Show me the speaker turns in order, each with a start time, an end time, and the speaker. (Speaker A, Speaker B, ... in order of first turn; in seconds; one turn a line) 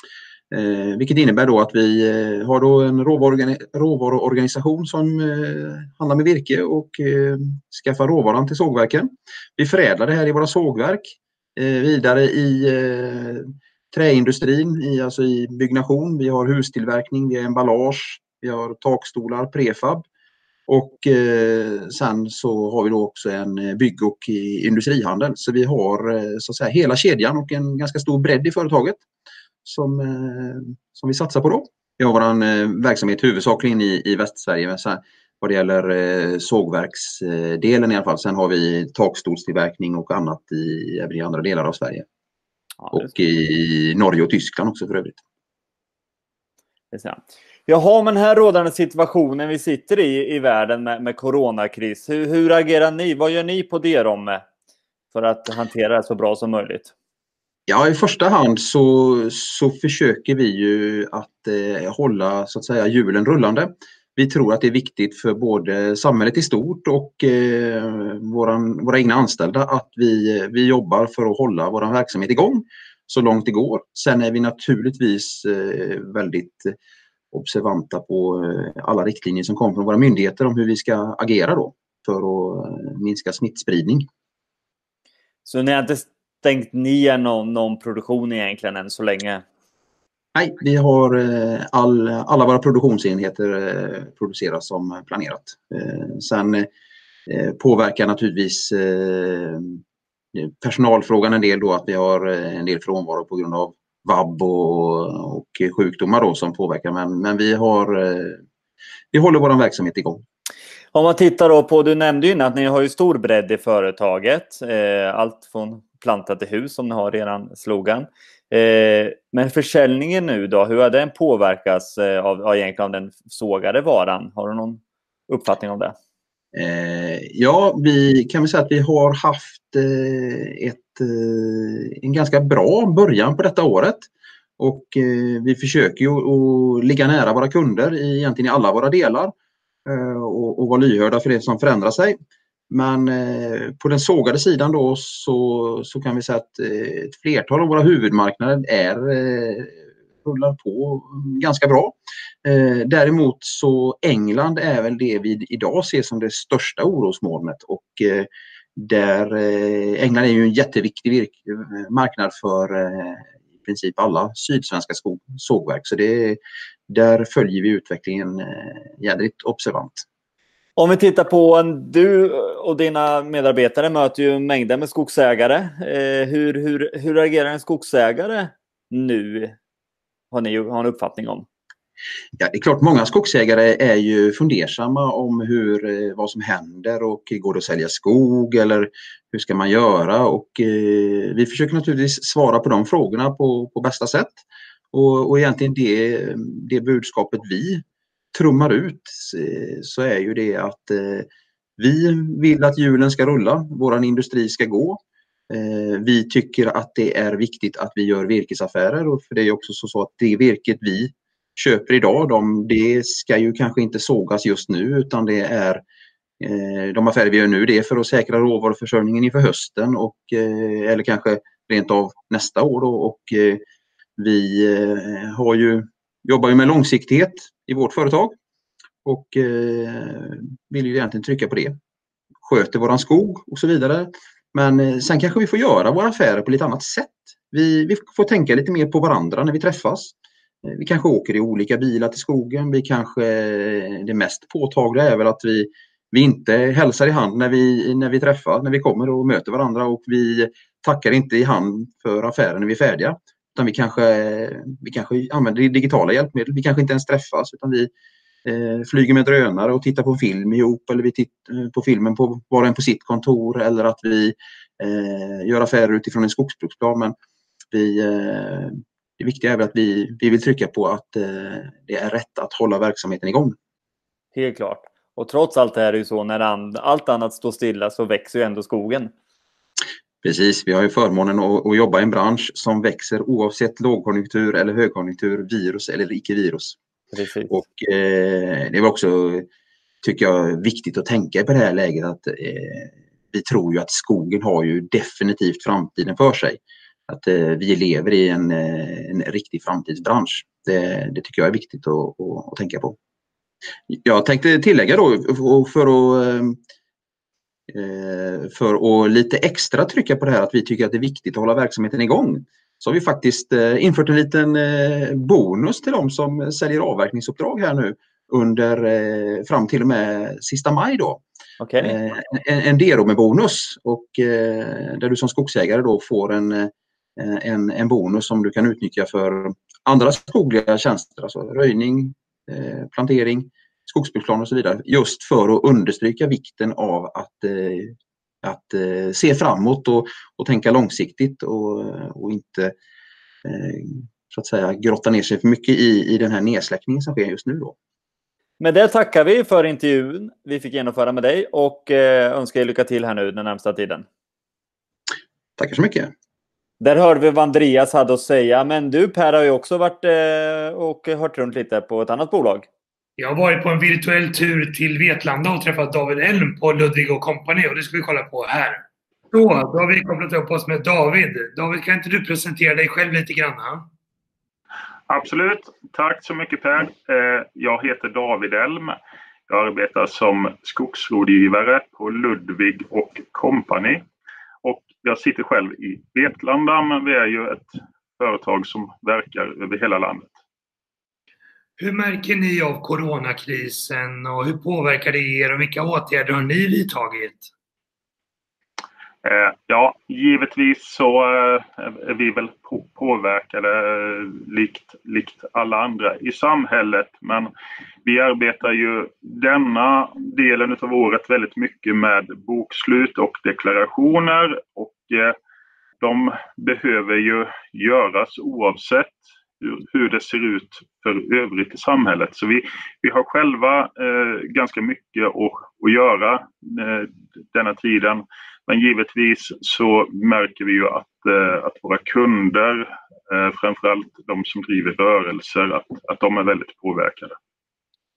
Speaker A: 0.5-20.1
Speaker A: 20.7-29.0
Speaker A: 29.6-42.0
Speaker B: 42.8-43.1
Speaker A: 42.9-45.2
Speaker B: 46.9-54.5
Speaker B: 55.1-56.9
Speaker A: 57.7-76.8
Speaker A: 77.3-84.1
Speaker B: 85.5-89.4
Speaker A: 90.3-96.7
Speaker A: 97.3-99.8
Speaker A: 100.3-108.4
Speaker A: 109.1-110.2
Speaker B: 110.9-126.0
Speaker A: 126.5-139.3
Speaker A: 139.8-142.2
Speaker A: 142.7-170.0
Speaker B: 170.8-179.6
Speaker B: 180.3-181.5
Speaker A: 182.4-197.8
Speaker A: 198.3-215.8
Speaker A: 216.4-223.6
Speaker A: 224.2-228.3
Speaker A: 229.0-231.8
Speaker A: 232.4-257.9
Speaker A: 258.4-267.1
Speaker A: 267.7-273.6
Speaker B: 274.4-279.1
Speaker A: 280.2-286.8
Speaker B: 287.1-287.5
Speaker A: 287.5-289.5
Speaker A: 290.0-303.0
Speaker A: 303.9-306.6
Speaker A: 307.7-321.2
Speaker B: 321.6-322.0
Speaker A: 321.8-342.8
Speaker A: 343.4-347.8
Speaker B: 348.6-354.0
Speaker A: 355.6-356.1
Speaker B: 356.8-362.6
Speaker C: 363.2-373.8
Speaker D: 375.1-379.0
Speaker D: 379.5-384.0
Speaker D: 384.6-390.4
Speaker C: 391.8-397.5
Speaker D: 399.2-407.5
Speaker D: 408.1-415.4
Speaker D: 416.0-437.4